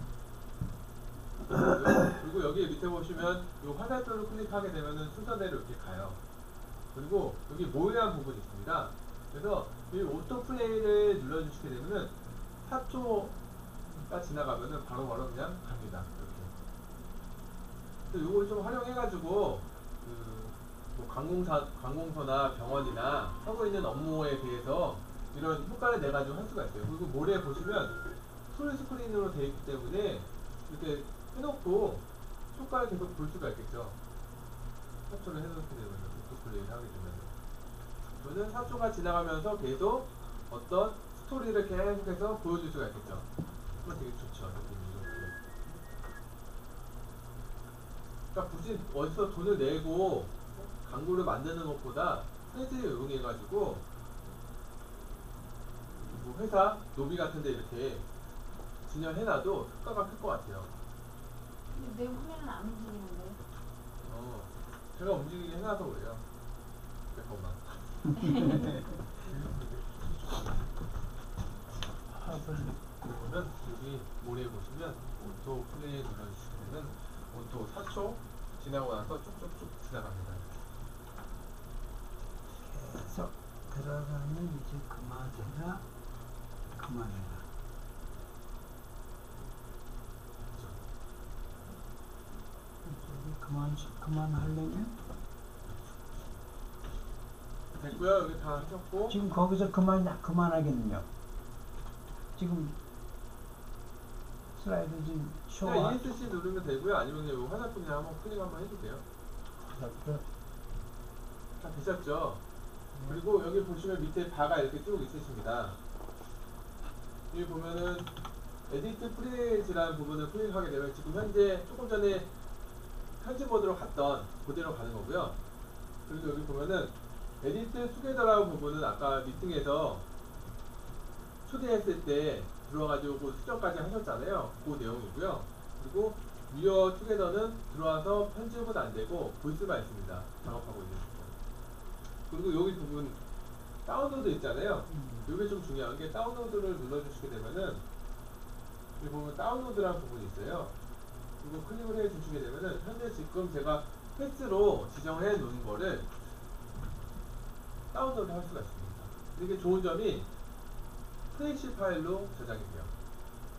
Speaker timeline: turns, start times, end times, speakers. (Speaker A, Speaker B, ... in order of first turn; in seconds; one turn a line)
Speaker A: 1.5-6.2
Speaker A: 6.9-13.4
Speaker A: 14.0-16.5
Speaker A: 18.1-28.0
Speaker A: 28.5-34.0
Speaker A: 35.1-37.3
Speaker A: 38.2-43.3
Speaker A: 43.8-45.4
Speaker A: 48.3-53.8
Speaker A: 55.9-58.0
Speaker A: 58.9-60.7
Speaker B: 61.7-63.4
Speaker A: 64.0-66.2
Speaker A: 67.1-68.0
Speaker C: 68.1-69.0
Speaker B: 68.2-68.7
Speaker A: 69.2-69.9
Speaker C: 72.1-72.8
Speaker A: 73.0-80.6
Speaker C: 82.5-85.8
Speaker C: 86.7-87.5
Speaker C: 92.8-95.0
Speaker A: 97.7-99.2
Speaker C: 99.1-101.1
Speaker C: 102.3-102.8
Speaker C: 104.5-106.0
Speaker A: 105.6-109.0
Speaker C: 109.6-110.2
Speaker A: 111.6-112.4
Speaker A: 113.0-115.8
Speaker A: 117.3-118.1
Speaker A: 118.7-122.3
Speaker A: 123.2-125.4
Speaker A: 126.1-130.0
Speaker A: 131.4-141.3
Speaker A: 142.3-143.2
Speaker A: 143.8-147.8
Speaker C: 144.9-145.3
Speaker A: 149.0-150.7
Speaker A: 151.4-156.1
Speaker A: 157.9-160.3
Speaker A: 161.3-162.9